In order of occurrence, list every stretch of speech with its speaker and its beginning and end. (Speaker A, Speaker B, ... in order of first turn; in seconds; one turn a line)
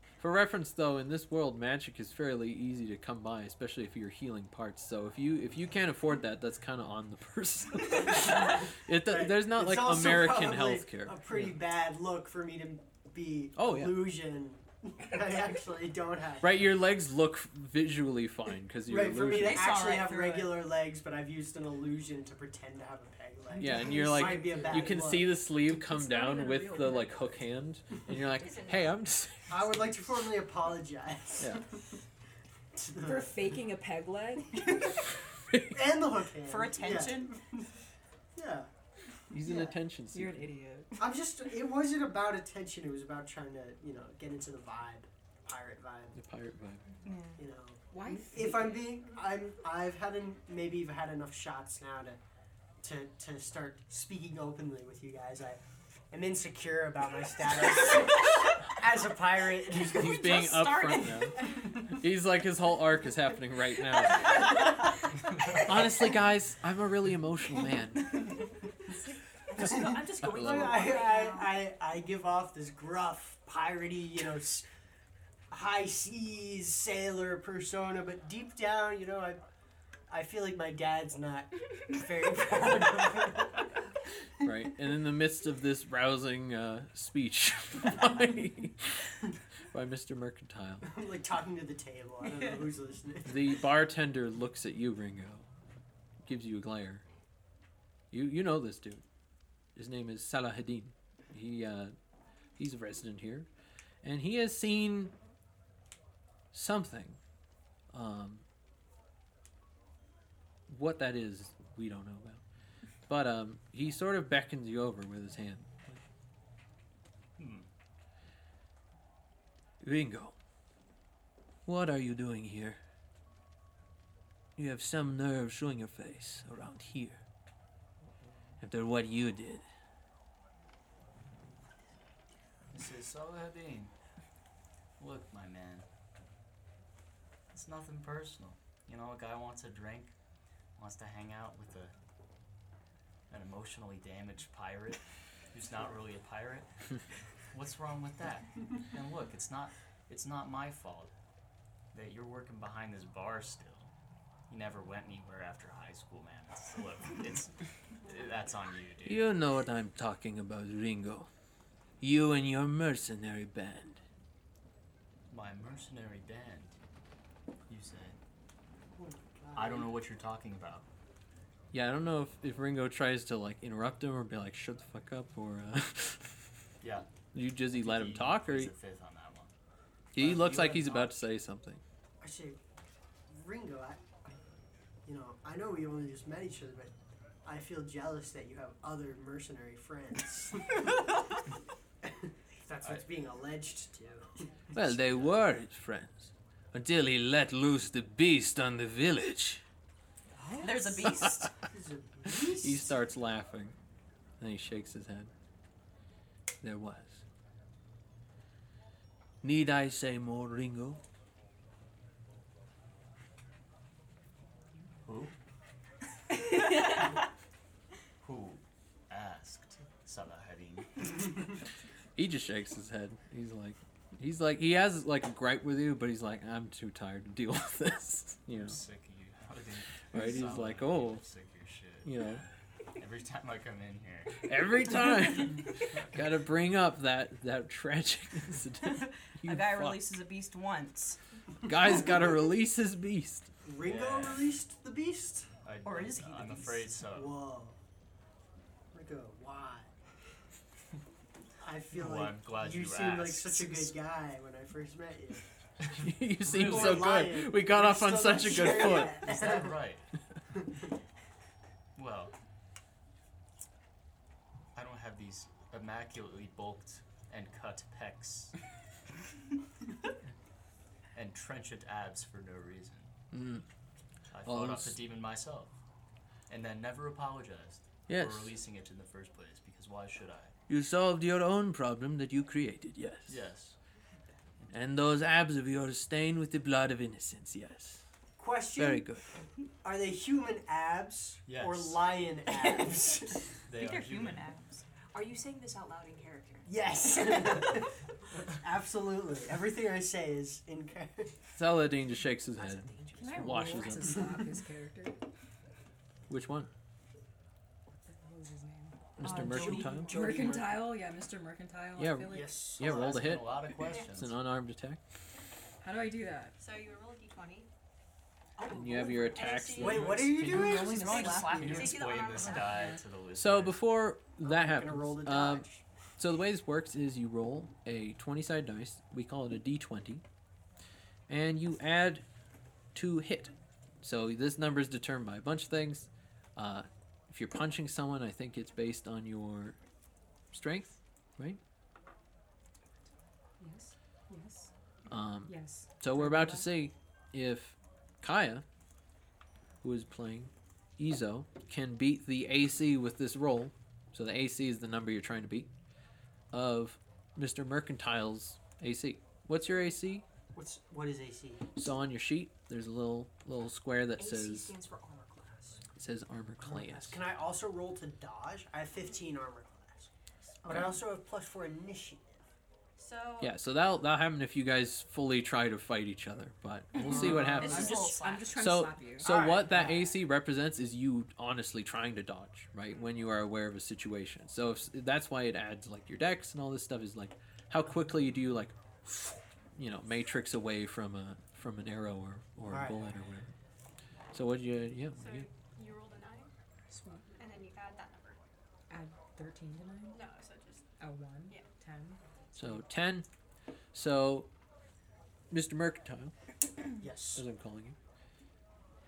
Speaker A: 0.2-11.6
Speaker B: 8.0-16.6
Speaker A: 13.6-14.1
Speaker A: 16.4-19.7
Speaker B: 18.9-25.4
Speaker C: 19.3-20.6
Speaker A: 23.6-29.9
Speaker D: 23.6-24.4
Speaker D: 25.7-27.3
Speaker E: 28.3-29.0
Speaker B: 29.5-31.8
Speaker A: 31.4-31.6
Speaker B: 32.7-33.6
Speaker D: 33.0-34.9
Speaker B: 35.6-37.7
Speaker C: 36.4-37.4
Speaker B: 38.3-38.7
Speaker B: 39.3-39.8
Speaker A: 39.3-40.5
Speaker D: 40.1-41.1
Speaker B: 41.0-46.2
Speaker A: 46.1-46.9
Speaker C: 47.0-47.4
Speaker B: 47.4-52.2
Speaker D: 47.9-48.9
Speaker B: 52.8-60.4
Speaker A: 59.8-64.7
Speaker C: 60.0-61.4
Speaker B: 61.4-61.9
Speaker A: 65.5-68.2
Speaker F: 69.5-71.6
Speaker B: 69.6-74.7
Speaker A: 70.2-70.8
Speaker B: 75.5-79.4
Speaker B: 80.1-83.7
Speaker A: 84.4-89.2
Speaker A: 89.7-90.9
Speaker B: 90.8-93.6
Speaker A: 93.2-95.5
Speaker A: 96.2-97.0
Speaker A: 98.1-99.0
Speaker A: 99.7-101.9
Speaker A: 102.6-103.5
Speaker A: 104.0-105.1
Speaker A: 106.5-107.2
Speaker A: 107.9-108.4
Speaker A: 110.7-112.4
Speaker A: 113.1-116.0
Speaker G: 117.4-117.7
Speaker A: 119.8-120.4
Speaker A: 121.7-122.8
Speaker A: 124.5-127.2
Speaker A: 128.6-129.6
Speaker G: 132.7-133.9
Speaker G: 135.0-135.9
Speaker G: 137.5-140.1
Speaker G: 140.8-141.9
Speaker G: 143.3-146.7
Speaker G: 147.5-151.1
Speaker G: 151.9-153.9
Speaker G: 154.5-159.3
Speaker A: 159.0-161.3
Speaker A: 162.0-164.0
Speaker G: 165.3-166.8
Speaker G: 167.7-168.2
Speaker B: 168.9-169.9
Speaker G: 169.5-170.9
Speaker A: 171.7-176.5
Speaker G: 176.8-177.1
Speaker A: 177.3-178.7
Speaker G: 177.7-179.5
Speaker A: 180.1-181.8
Speaker B: 180.2-181.0
Speaker B: 182.2-182.6
Speaker B: 183.3-184.3
Speaker B: 185.1-186.9
Speaker B: 187.4-190.9
Speaker B: 192.0-195.0
Speaker A: 194.7-199.6
Speaker B: 200.4-200.8
Speaker C: 200.6-201.5
Speaker A: 201.0-201.5
Speaker B: 201.7-203.0
Speaker A: 202.3-203.8
Speaker A: 204.4-205.3
Speaker A: 206.6-207.2
Speaker A: 209.4-211.0
Speaker G: 215.0-215.3
Speaker G: 216.8-217.2
Speaker G: 218.2-221.5
Speaker A: 222.2-228.8
Speaker G: 228.5-235.0
Speaker A: 230.1-231.2
Speaker A: 232.0-232.4
Speaker A: 234.4-240.0
Speaker C: 238.8-241.2
Speaker A: 241.7-243.5
Speaker B: 243.6-245.5
Speaker G: 243.8-244.5
Speaker G: 245.6-247.4
Speaker C: 245.8-246.8
Speaker B: 247.1-247.8
Speaker B: 248.9-249.9
Speaker B: 251.6-255.4
Speaker G: 251.9-253.9
Speaker A: 255.9-259.3
Speaker G: 256.4-257.1
Speaker B: 256.5-259.8
Speaker G: 258.6-260.1
Speaker G: 261.9-262.3
Speaker G: 264.7-268.5
Speaker G: 271.1-273.1
Speaker A: 273.3-273.6
Speaker G: 274.3-275.8
Speaker A: 274.4-275.0
Speaker G: 276.5-280.5
Speaker A: 278.1-278.6
Speaker A: 280.7-283.5
Speaker G: 283.3-283.8
Speaker A: 284.7-288.0
Speaker B: 288.4-289.1
Speaker A: 288.8-289.2
Speaker B: 289.8-293.5
Speaker G: 291.5-292.1
Speaker G: 293.7-294.5
Speaker C: 293.8-294.8
Speaker F: 295.1-296.7
Speaker B: 296.6-301.4
Speaker A: 301.6-304.3
Speaker F: 302.6-303.8
Speaker D: 303.2-305.2
Speaker A: 306.3-306.7
Speaker D: 307.9-312.6
Speaker A: 309.2-310.2
Speaker C: 309.2-310.4
Speaker F: 309.2-310.8
Speaker A: 311.9-315.0
Speaker B: 312.3-313.3
Speaker G: 312.8-314.4
Speaker E: 313.8-314.1
Speaker D: 315.8-316.6
Speaker E: 316.6-317.7
Speaker F: 318.6-319.6
Speaker A: 318.7-320.6
Speaker E: 318.9-320.0
Speaker B: 319.8-321.6
Speaker D: 320.0-323.0
Speaker C: 320.2-322.1
Speaker G: 321.5-323.8
Speaker E: 321.7-322.9
Speaker A: 323.3-325.7
Speaker B: 324.4-325.9
Speaker A: 326.2-330.2
Speaker A: 331.3-332.2
Speaker A: 332.9-339.8
Speaker A: 340.5-341.6
Speaker D: 343.6-344.7
Speaker A: 345.1-348.6
Speaker D: 345.4-346.7
Speaker A: 349.8-355.7
Speaker A: 356.5-360.2
Speaker B: 360.5-361.6
Speaker A: 361.8-364.7
Speaker F: 364.2-365.8
Speaker A: 365.9-367.2
Speaker B: 366.6-370.1
Speaker B: 370.6-372.4
Speaker E: 373.0-373.5
Speaker A: 373.4-393.5
Speaker C: 377.0-378.5
Speaker B: 377.0-377.8
Speaker D: 377.1-379.4
Speaker B: 379.2-380.0
Speaker B: 392.6-393.1
Speaker A: 394.3-395.5
Speaker E: 395.1-396.5
Speaker D: 396.9-397.3
Speaker E: 397.4-398.4
Speaker D: 398.9-400.2
Speaker E: 400.1-400.8
Speaker D: 401.0-402.2
Speaker A: 402.5-403.3
Speaker A: 403.9-404.5
Speaker A: 405.5-406.3
Speaker B: 407.0-407.4
Speaker A: 407.3-408.0